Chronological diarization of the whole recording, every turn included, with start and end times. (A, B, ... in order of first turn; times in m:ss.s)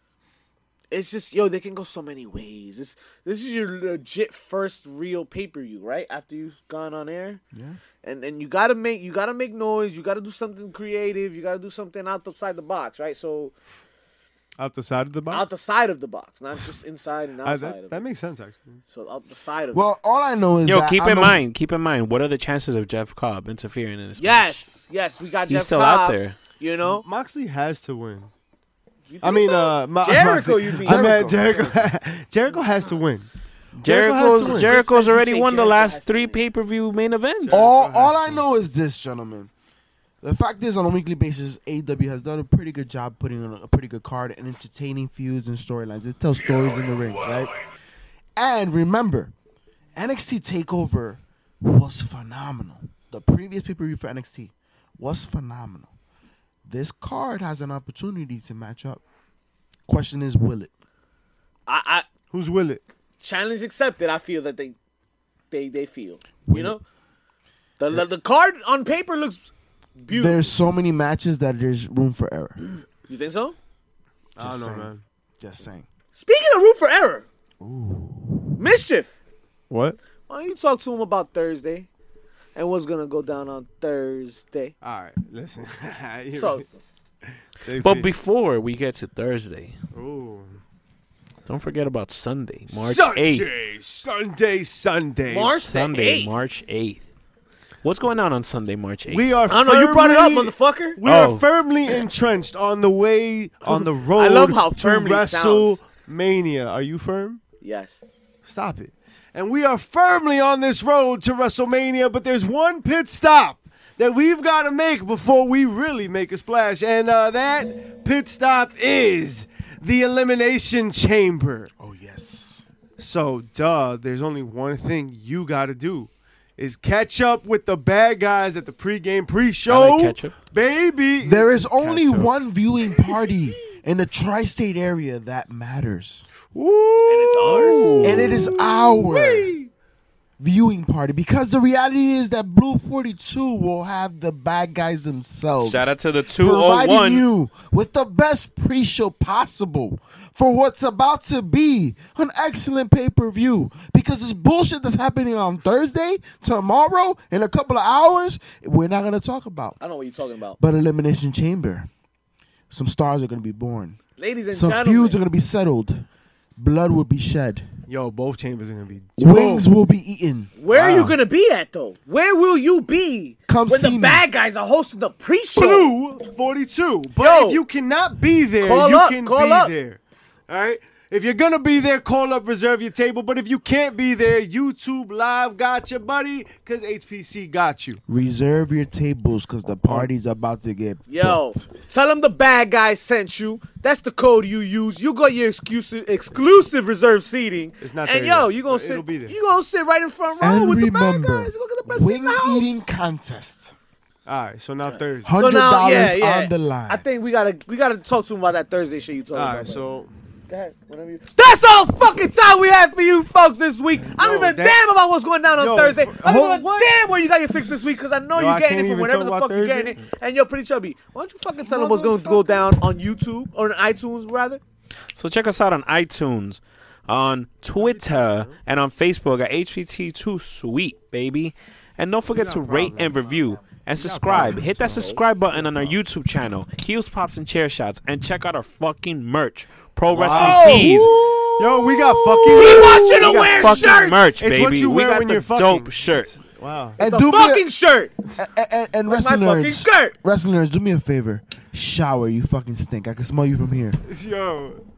0:00.9-0:07.4 A
0:08.0-0:13.5 A
0:14.6-0:15.5 B
0:15.3-0:18.0 A
0:17.4-0:18.8 B
0:18.9-0:19.8 A
0:19.7-0:21.4 C
0:20.7-0:24.6 D
0:24.2-0:27.0 A
0:25.5-0:26.4 D
0:26.9-0:28.3 B
0:29.1-0:31.8 A
0:29.2-0:33.3 B
0:30.8-0:31.7 C
0:33.8-0:37.7 D
0:33.8-0:34.8 B
0:34.4-0:36.4 A
0:37.4-0:38.4 B
0:37.5-0:39.5 C
0:40.2-0:47.5 C
0:48.4-0:49.3 C
0:50.0-0:55.9 C
0:56.7-0:59.0 C
0:59.9-1:00.7 C
1:01.7-1:02.1 A
1:02.3-1:02.8 B
1:03.2-1:04.8 A
1:05.5-1:06.8 A
1:06.5-1:06.8 C
1:07.8-1:10.5 A
1:10.1-1:12.6 C
1:13.1-1:13.6 A
1:14.4-1:15.9 C
1:14.4-1:15.0 B
1:16.2-1:17.3 A
1:17.6-1:18.6 C
1:18.6-1:19.1 A
1:19.7-1:20.0 B
1:20.3-1:21.9 A
1:22.6-1:24.7 A
1:24.8-1:26.6 B
1:26.4-1:26.7 A
1:27.6-1:28.1 B
1:27.7-1:29.8 D
1:29.9-1:30.6 B
1:31.5-1:33.5 D
1:32.7-1:35.6 B
1:35.3-1:36.3 A
1:35.6-1:37.0 D
1:37.8-1:39.3 D
1:39.1-1:47.4 B
1:39.5-1:41.0 A
1:41.0-1:41.4 D
1:43.6-1:45.8 A
1:47.6-1:48.0 A
1:48.4-2:01.7 B
2:01.8-2:02.6 C
2:03.0-2:12.3 B
2:09.7-2:10.4 D
2:11.2-2:16.2 C
2:12.9-2:13.2 B
2:16.5-2:19.7 B
2:17.1-2:18.1 A
2:17.4-2:18.4 D
2:18.0-2:19.5 C
2:20.4-2:39.8 C
2:25.6-2:27.2 D
2:39.8-2:40.6 A
2:40.6-2:41.9 C
2:42.7-2:44.0 C
2:44.2-2:45.2 A
2:44.5-2:46.0 C
2:46.6-2:47.7 C
2:47.9-2:49.7 B
2:49.2-2:50.5 C
2:50.6-2:55.9 A
2:50.7-2:51.2 B
2:53.5-2:54.2 C
2:55.5-3:08.0 B
2:57.2-2:57.6 A
2:58.6-2:59.7 A
3:08.1-3:11.7 C
3:09.8-3:10.1 B
3:11.1-3:22.9 A
3:17.8-3:19.4 B
3:20.4-3:23.7 C
3:24.3-3:25.4 B
3:24.8-3:29.8 A
3:25.2-3:27.0 C
3:29.3-3:30.1 B
3:30.5-3:44.6 A
3:34.1-3:34.8 B
3:35.6-3:36.9 B
3:38.4-3:40.0 B
3:41.6-3:42.7 B
3:45.2-4:01.2 D
3:47.8-3:48.6 B
3:52.3-3:53.4 B
3:54.0-3:55.9 B
4:00.1-4:07.0 B
4:00.3-4:01.0 A
4:00.5-4:03.1 C
4:02.5-4:04.3 A
4:03.0-4:06.3 D
4:07.0-4:07.7 C
4:07.0-4:08.1 A
4:08.4-4:14.0 C
4:09.1-4:10.2 A
4:14.1-4:14.8 B